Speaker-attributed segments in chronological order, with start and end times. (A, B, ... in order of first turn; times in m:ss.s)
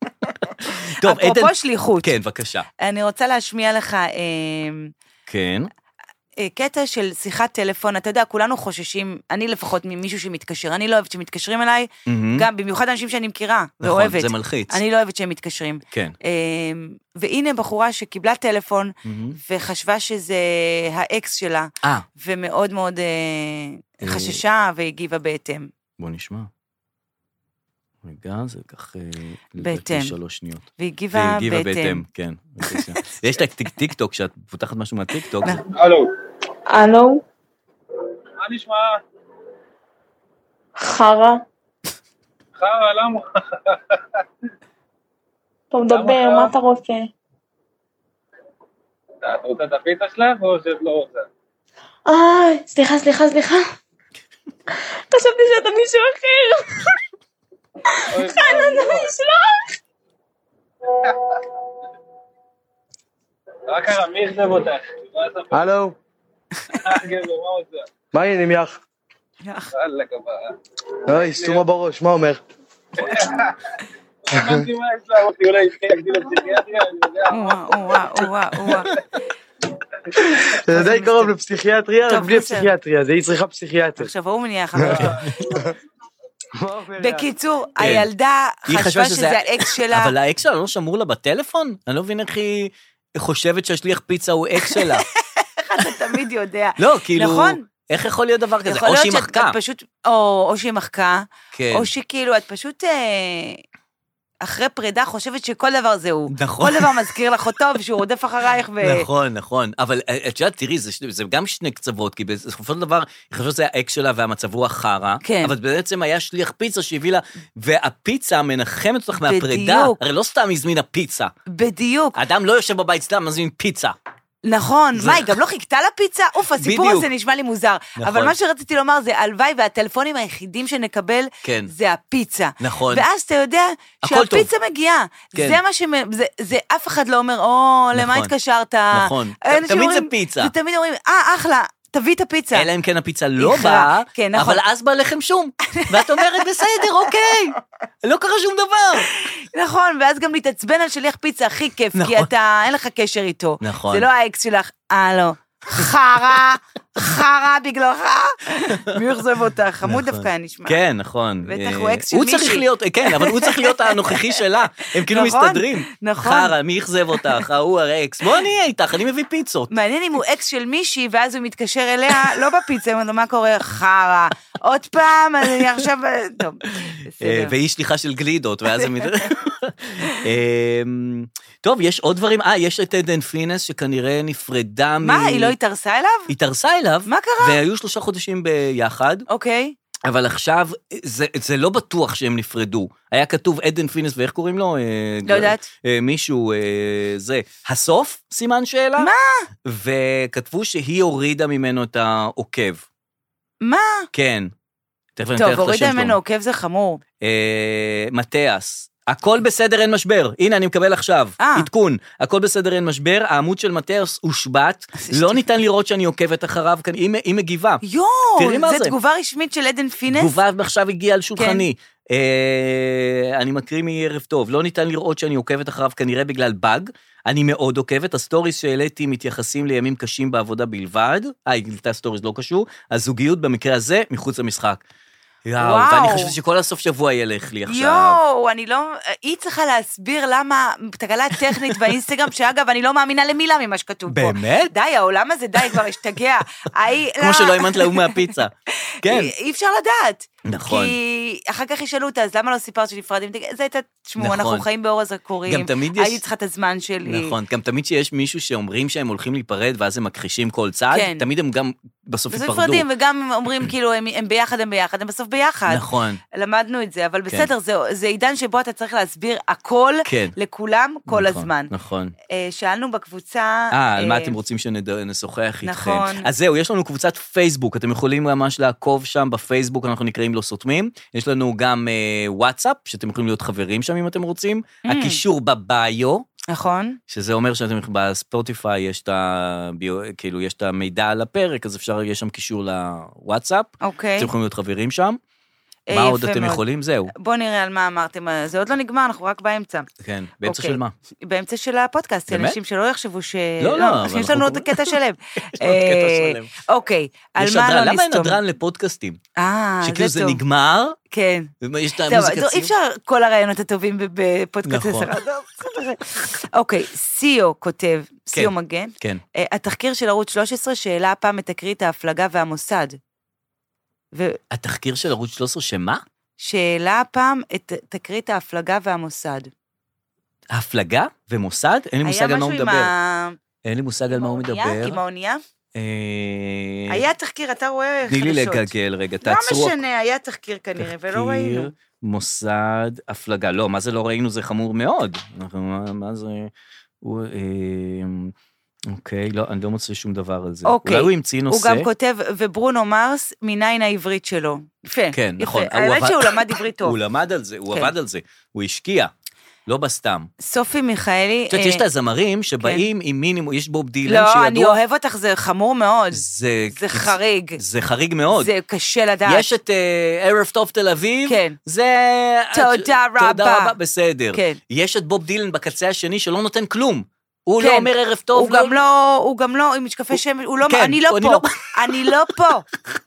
0:00.6-0:02.7 A
0:01.0-0:02.1 B
0:02.8-0:04.9 B
0:05.3-0:05.7 A
0:06.4-0:18.9 B
0:12.0-0:12.5 A
0:13.8-0:14.8 A
0:15.9-0:16.2 A
0:19.0-0:19.4 A
0:19.4-0:25.7 B
0:24.0-0:24.4 A
0:26.0-0:26.5 A
0:28.0-0:35.6 A
0:29.6-0:30.1 B
0:30.8-0:32.0 B
0:35.7-0:36.1 C
0:36.7-0:37.2 D
0:38.4-0:39.0 C
0:40.8-0:41.4 D
0:42.6-0:44.0 C
0:45.7-0:47.1 D
0:45.9-0:46.5 C
0:49.2-0:51.3 C
0:52.1-0:53.7 D
0:55.1-0:56.9 D
0:58.1-0:59.1 C
0:58.1-0:59.7 D
1:01.0-1:01.4 C
1:03.7-1:05.7 C
1:05.5-1:06.0 E
1:06.7-1:07.9 C
1:08.1-1:08.8 E
1:09.4-1:09.7 B
1:09.7-1:10.6 C
1:11.1-1:12.4 E
1:11.1-1:11.6 C
1:13.0-1:13.6 C
1:14.3-1:18.9 C
1:14.3-1:14.6 E
1:17.3-1:18.9 B
1:20.2-1:24.1 E
1:20.7-1:21.3 B
1:22.0-1:22.7 B
1:24.0-1:25.2 B
1:24.8-1:25.7 E
1:24.9-1:25.5 C
1:26.6-1:27.3 E
1:27.0-1:30.1 B
1:27.8-1:28.1 A
1:28.7-1:35.0 A
1:34.6-1:37.6 B
1:36.8-1:39.6 A
1:38.6-1:43.6 B
1:41.5-1:41.9 A
1:44.4-1:49.1 B
1:46.3-1:47.1 A
1:48.8-2:01.3 A
1:55.2-1:55.5 B
1:59.2-2:00.0 B
2:01.5-2:02.2 B
2:02.2-2:04.0 A
2:04.4-2:22.7 B
2:05.0-2:05.3 A
2:06.6-2:07.1 A
2:08.0-2:08.3 A
2:11.4-2:11.7 A
2:12.6-2:13.0 A
2:14.0-2:14.5 A
2:15.3-2:15.6 A
2:17.9-2:18.3 A
2:18.9-2:20.5 A
2:22.5-2:29.1 A
2:23.4-2:24.6 B
2:25.7-2:26.8 B
2:29.2-2:40.8 B
2:31.9-2:32.3 A
2:33.6-2:34.0 A
2:38.7-2:39.0 A
2:39.8-2:49.7 A
2:41.4-2:44.3 B
2:45.0-2:46.5 B
2:49.7-2:57.5 B
2:57.2-3:05.5 A
2:58.8-2:59.1 B
3:05.0-3:06.3 B
3:06.3-3:09.2 A
3:07.0-3:07.6 B
3:09.3-3:09.7 B
3:10.0-3:19.1 A
3:15.2-3:15.7 B
3:19.0-3:19.4 B
3:19.6-3:22.8 A
3:23.6-3:24.1 B
3:24.1-3:24.5 A
3:25.2-3:26.2 A
3:25.4-3:27.0 B
3:27.2-3:37.8 A
3:31.4-3:31.7 B
3:35.0-3:35.4 B
3:37.8-3:40.4 B
3:38.4-3:38.9 A
3:40.1-3:54.8 A
3:41.4-3:41.6 B
3:55.4-3:58.2 A
3:55.6-3:56.3 B
3:57.7-4:08.3 B
4:01.4-4:01.9 A
4:04.1-4:04.7 A
4:07.2-4:09.3 A
4:09.0-4:17.3 B
4:10.4-4:11.0 A
4:14.2-4:14.6 A
4:15.4-4:16.2 A
4:17.0-4:22.8 A
4:20.9-4:21.2 B
4:22.3-4:31.7 B
4:25.7-4:26.2 A
4:30.0-4:30.4 A
4:31.1-4:32.1 A
4:32.3-4:34.4 B
4:33.7-4:46.2 A
4:35.6-4:36.3 B
4:44.8-4:45.2 B
4:46.5-4:47.0 B
4:47.1-4:55.2 A
4:53.8-4:54.3 B
4:55.9-4:59.9 B
4:55.9-4:57.1 A
5:00.0-5:00.9 A
5:00.4-5:08.4 B
5:02.3-5:02.6 A
5:03.6-5:05.0 A
5:05.5-5:06.5 A
5:07.4-5:09.2 A
5:09.4-5:10.4 B
5:09.8-5:11.0 A
5:11.1-5:11.5 B
5:11.6-5:12.7 A
5:12.0-5:23.0 B
5:14.6-5:15.1 A
5:18.3-5:19.2 A
5:24.1-5:24.4 B
5:24.5-5:26.0 A
5:26.4-5:29.5 B
5:30.5-5:32.9 A
5:32.0-5:33.4 B
5:33.6-5:35.0 A
5:34.1-5:35.4 B
5:35.7-5:37.0 A
5:36.9-5:38.7 B
5:38.1-5:39.8 A
5:39.2-5:41.7 B
5:40.8-5:48.3 A
5:48.9-5:51.9 A
5:50.6-5:57.0 B
5:55.1-5:59.1 A
5:59.7-6:00.3 A
6:00.4-6:01.8 B
6:01.5-6:04.8 A
6:02.6-6:02.8 B
6:04.0-6:07.6 B
6:06.1-6:08.5 A
6:08.3-6:09.5 B
6:09.2-6:18.8 A
6:11.3-6:11.6 B
6:12.5-6:13.7 B
6:14.3-6:14.6 B
6:17.6-6:22.6 B
6:20.1-6:22.1 A